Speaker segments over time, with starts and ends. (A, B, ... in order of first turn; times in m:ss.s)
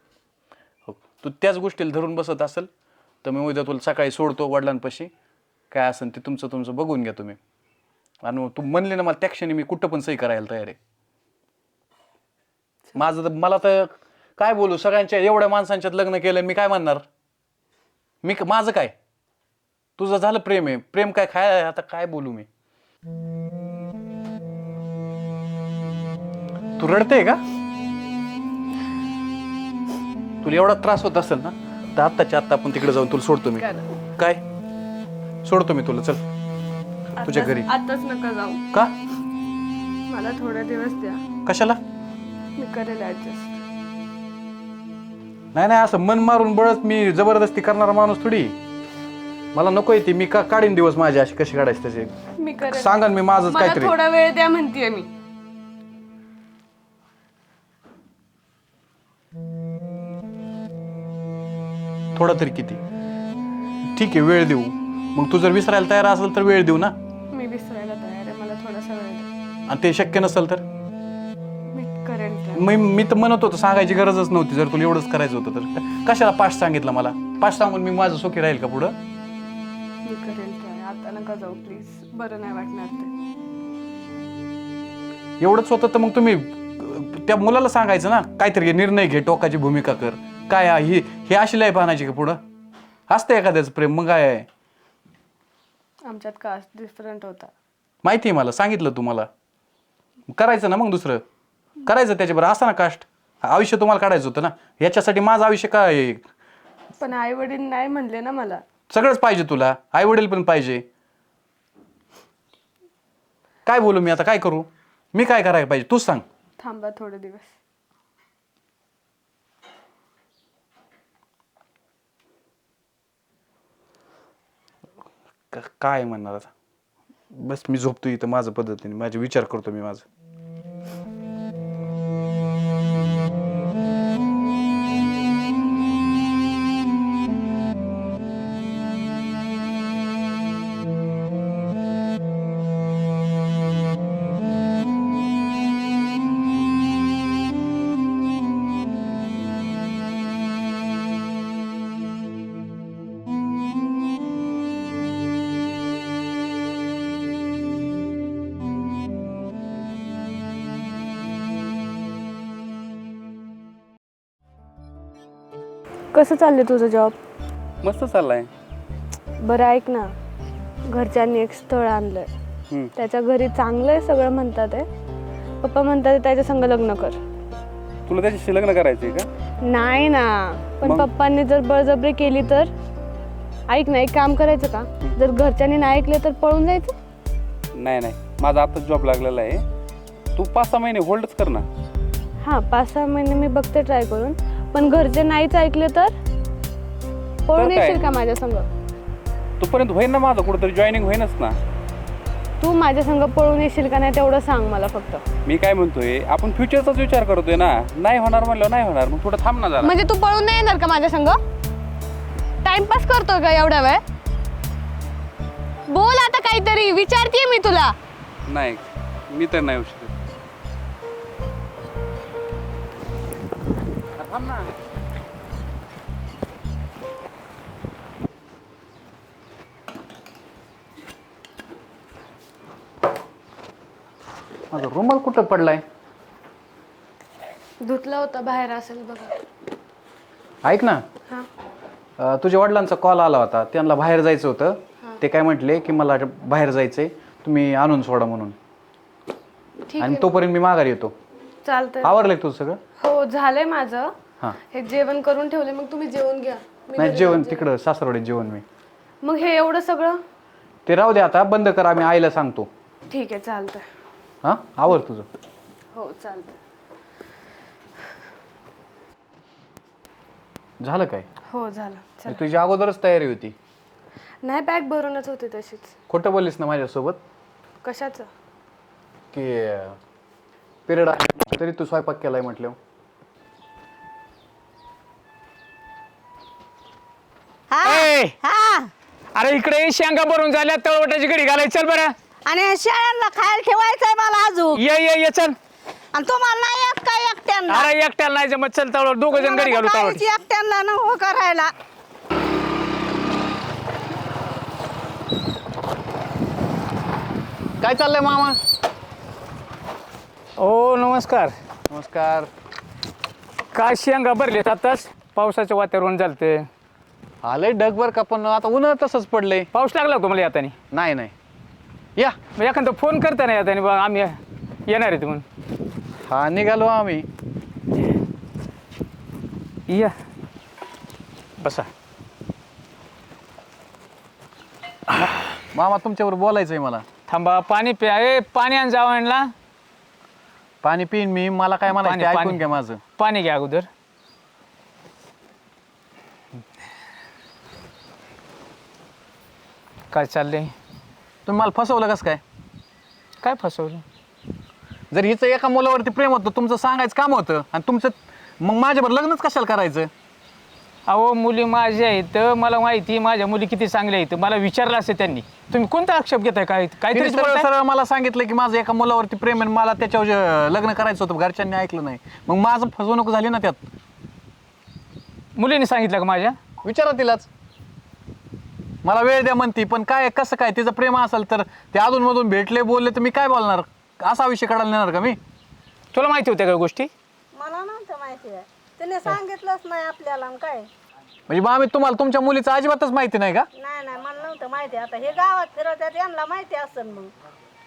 0:00.8-0:02.7 A
0:03.2-0:05.1 A
0:05.7-0:07.4 A
0:08.2-0:10.8 A
0:12.9-0:17.0 A
0:18.2-0:18.9 A
0:20.0-0:22.5 A
0:26.8-0:27.4 A
0:30.4-0:33.6 A
0:33.6-0:33.8 B
0:34.2-0:34.4 A
0:35.4-0:36.2 A
0:37.2-0:38.6 B
0:37.2-0:37.7 A
0:40.1-0:41.2 B
0:41.4-0:41.8 A
0:42.6-0:43.6 B
0:45.5-0:48.6 A
0:49.5-0:52.1 A
0:52.4-0:55.1 B
0:52.6-0:54.0 A
1:02.1-1:02.8 A
1:03.9-1:06.9 A
1:07.3-1:09.3 B
1:09.7-1:10.6 A
1:11.7-1:12.6 B
1:12.5-1:19.0 A
1:20.0-1:23.1 B
1:25.4-1:32.4 A
1:33.1-1:34.4 A
1:36.0-1:37.5 B
1:38.0-1:39.3 A
1:40.3-1:41.2 A
1:41.8-1:46.2 A
1:47.0-1:48.6 B
1:48.9-1:50.8 A
1:53.6-1:56.2 A
1:56.6-1:57.5 B
2:05.5-2:06.5 A
2:07.3-2:10.0 A
2:46.1-2:47.2 B
2:47.8-2:48.5 C
2:49.4-2:50.1 B
2:50.9-2:52.3 B
2:52.9-2:54.8 B
2:55.6-2:57.2 B
2:58.1-2:59.3 C
2:59.6-3:02.7 B
3:00.8-3:01.1 C
3:03.7-3:06.9 B
3:07.7-3:09.6 C
3:10.4-3:11.6 C
3:12.4-3:16.1 B
3:17.5-3:18.7 B
3:17.5-3:18.0 C
3:19.6-3:21.6 C
3:22.6-3:25.2 B
3:25.4-3:30.0 C
3:29.8-3:31.4 B
3:32.6-3:34.0 B
3:35.9-3:37.9 B
3:38.5-3:40.1 C
3:44.2-3:44.6 C
3:54.7-3:55.8 A
3:57.8-3:59.4 B
4:00.6-4:01.0 A
4:02.2-4:08.6 A
4:09.9-4:10.3 B
4:10.0-4:11.1 A
4:11.6-4:12.1 B
4:12.0-4:12.8 A
4:13.0-4:14.1 B
4:14.7-4:17.7 B
4:17.0-4:18.6 A
4:19.2-4:20.2 B
4:20.8-4:22.7 A
4:23.1-4:23.8 B
4:24.4-4:25.4 A
4:25.9-4:26.5 B
4:30.8-4:31.3 A
4:31.5-4:32.4 B
4:32.2-4:33.5 A
4:34.4-4:35.9 B
4:36.1-4:37.2 A
4:37.8-4:38.3 B
4:39.3-4:40.0 A
4:40.9-4:42.8 A
4:47.7-4:48.9 D
4:47.8-4:48.3 E
4:49.3-4:52.1 E
4:52.5-4:54.8 D
4:54.8-4:55.6 E
4:56.1-4:57.9 D
4:57.7-5:00.2 E
4:59.3-5:01.7 D
5:07.8-5:08.6 A
5:10.6-5:11.5 E
5:11.9-5:12.5 A
5:13.7-5:16.6 E
5:17.4-5:19.7 A
5:19.7-5:20.8 E
5:20.9-5:21.3 A
5:22.6-5:25.4 E
5:26.3-5:27.2 A
5:29.9-5:30.1 E
5:31.6-5:31.9 E
5:35.1-5:37.0 A
5:37.3-5:39.5 E
5:40.8-5:43.0 A
5:41.9-5:43.9 E
5:50.1-5:50.7 E
5:51.4-5:52.4 A
5:53.4-5:54.0 E
5:55.1-6:00.1 A
6:01.1-6:07.6 E
6:07.1-6:13.8 A
6:15.6-6:16.5 E
6:16.8-6:17.5 A
6:19.0-6:25.4 A
6:26.1-6:27.1 E
6:27.5-6:30.9 D
6:31.5-6:33.7 A
6:33.8-6:37.3 D